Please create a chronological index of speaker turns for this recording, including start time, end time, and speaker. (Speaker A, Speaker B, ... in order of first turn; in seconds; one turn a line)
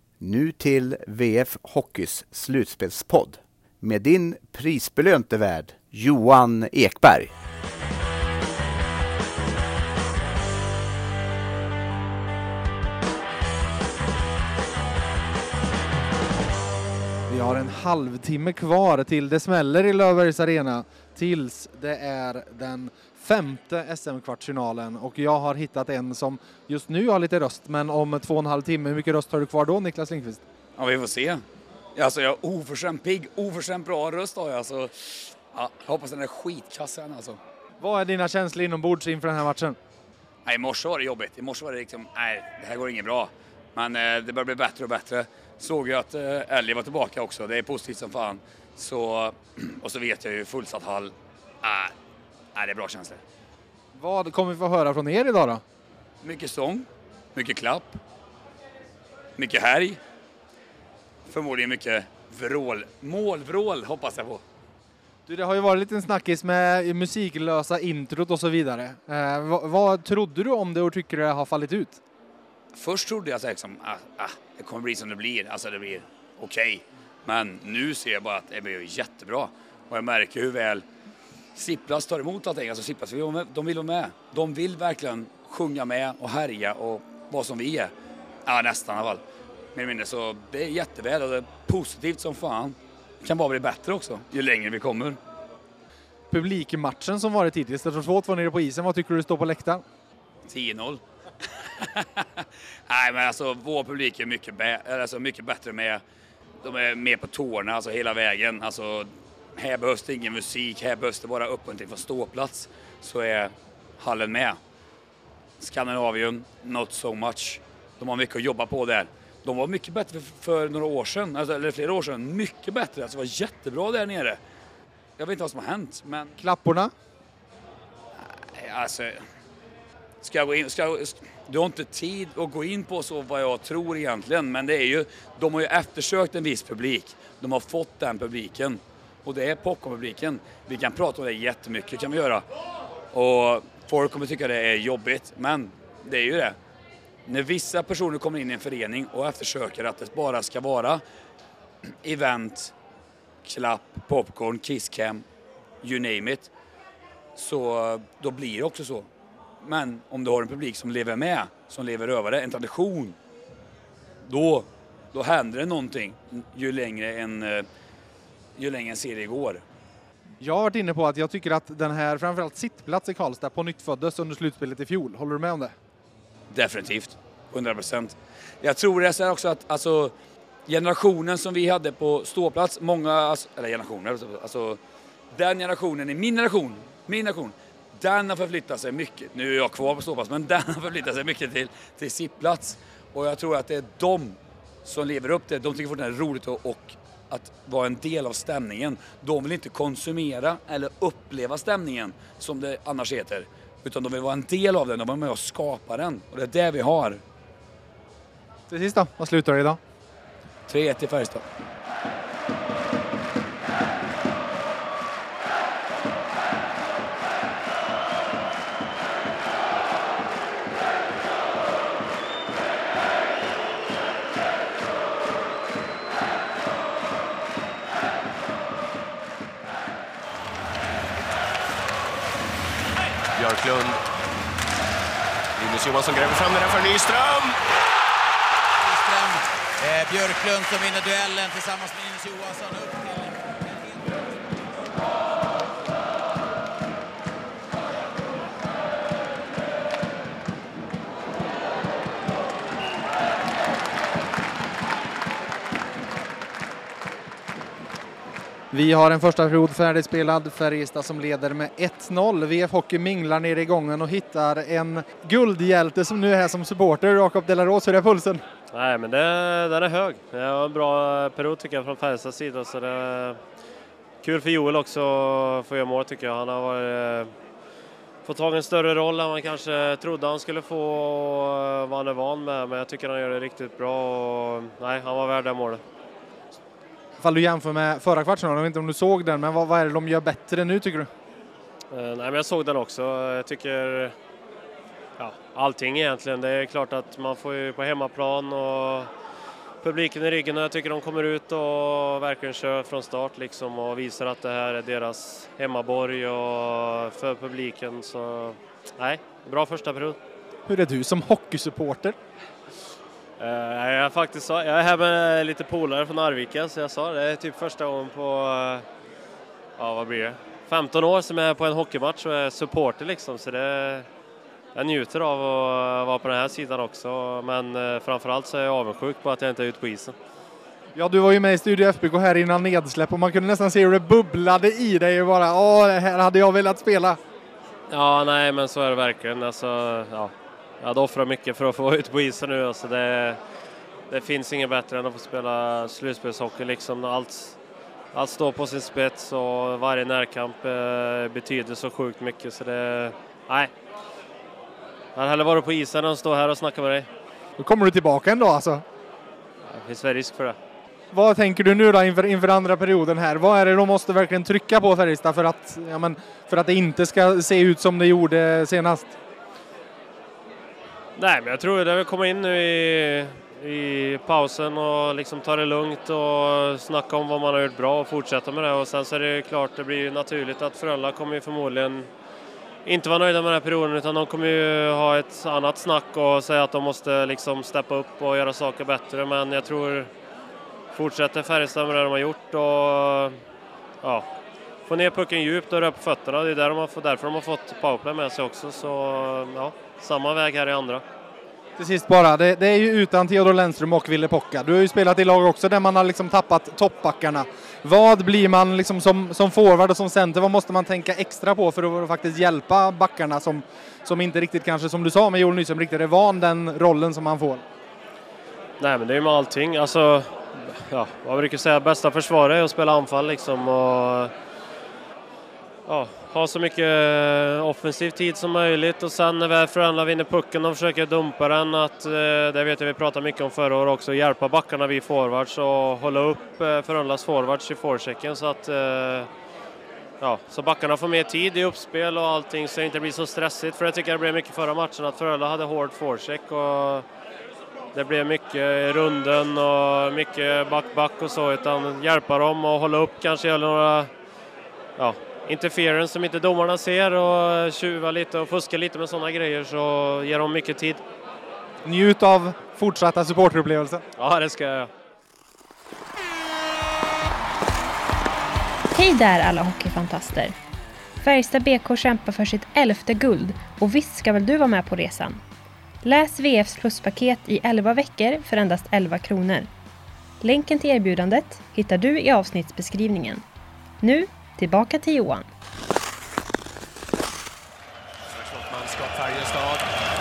Speaker A: 0.2-7.3
Speaker B: 17.3-30.4
Speaker C: 30.8-31.4
Speaker C: 31.9-37.4
Speaker B: 37.8-39.8
Speaker C: 40.4-51.9
Speaker C: 52.5-53.2
Speaker B: 53.9-55.6
Speaker C: 56.2-58.0
Speaker C: 59.4-60.0
Speaker C: 61.3-64.4
Speaker B: 65.3-72.0
Speaker C: 72.7-80.8
Speaker C: 81.5-87.9
Speaker C: 88.5-89.2
Speaker C: 89.7-95.2
Speaker B: 96.3-99.8
Speaker C: 100.5-101.0
Speaker C: 101.8-106.0
Speaker C: 106.6-114.6
Speaker C: 115.6-124.4
Speaker C: 125.2-126.3
Speaker B: 126.4-126.9
Speaker C: 128.2-129.2
Speaker C: 130.2-142.4
Speaker C: 143.1-146.6
Speaker C: 147.3-151.0
Speaker C: 151.8-152.7
Speaker C: 153.4-155.2
Speaker C: 155.8-156.5
Speaker C: 157.3-159.1
Speaker C: 159.6-163.2
Speaker C: 164.2-167.6
Speaker C: 168.6-169.6
Speaker B: 170.4-175.7
Speaker C: 176.5-180.1
Speaker C: 180.7-184.8
Speaker C: 185.3-207.2
Speaker B: 208.7-209.8
Speaker C: 210.7-211.4
Speaker D: 233.3-234.0
Speaker D: 235.6-237.6
Speaker E: 239.0-243.9
Speaker B: 258.7-268.4
Speaker F: 268.7-273.4
Speaker F: 274.2-277.3
Speaker F: 278.2-285.8
Speaker B: 287.2-291.1
Speaker F: 291.9-294.1
Speaker F: 295.2-299.1
Speaker F: 299.8-310.2
Speaker B: 310.6-312.2
Speaker F: 313.4-318.8
Speaker F: 319.8-324.1
Speaker F: 324.7-330.1
Speaker B: 330.9-337.2
Speaker F: 337.9-343.4
Speaker F: 344.1-347.6
Speaker F: 348.1-353.7
Speaker F: 355.1-357.1
Speaker B: 357.6-358.8
Speaker F: 359.7-360.6
Speaker B: 361.1-369.1
Speaker F: 371.1-382.1
Speaker F: 382.9-390.1
Speaker F: 390.9-393.3
Speaker F: 394.9-401.0
Speaker B: 401.8-417.6
Speaker F: 418.8-424.3
Speaker F: 425.9-439.3
Speaker F: 440.2-447.1
Speaker F: 447.9-454.1
Speaker F: 455.0-461.0
Speaker B: 461.8-464.0
Speaker F: 464.2-464.9
Speaker G: 468.9-470.5
Speaker G: 471.2-475.4
Speaker G: 476.0-479.7
Speaker G: 480.4-483.4
Speaker G: 484.0-485.4
Speaker D: 488.3-489.9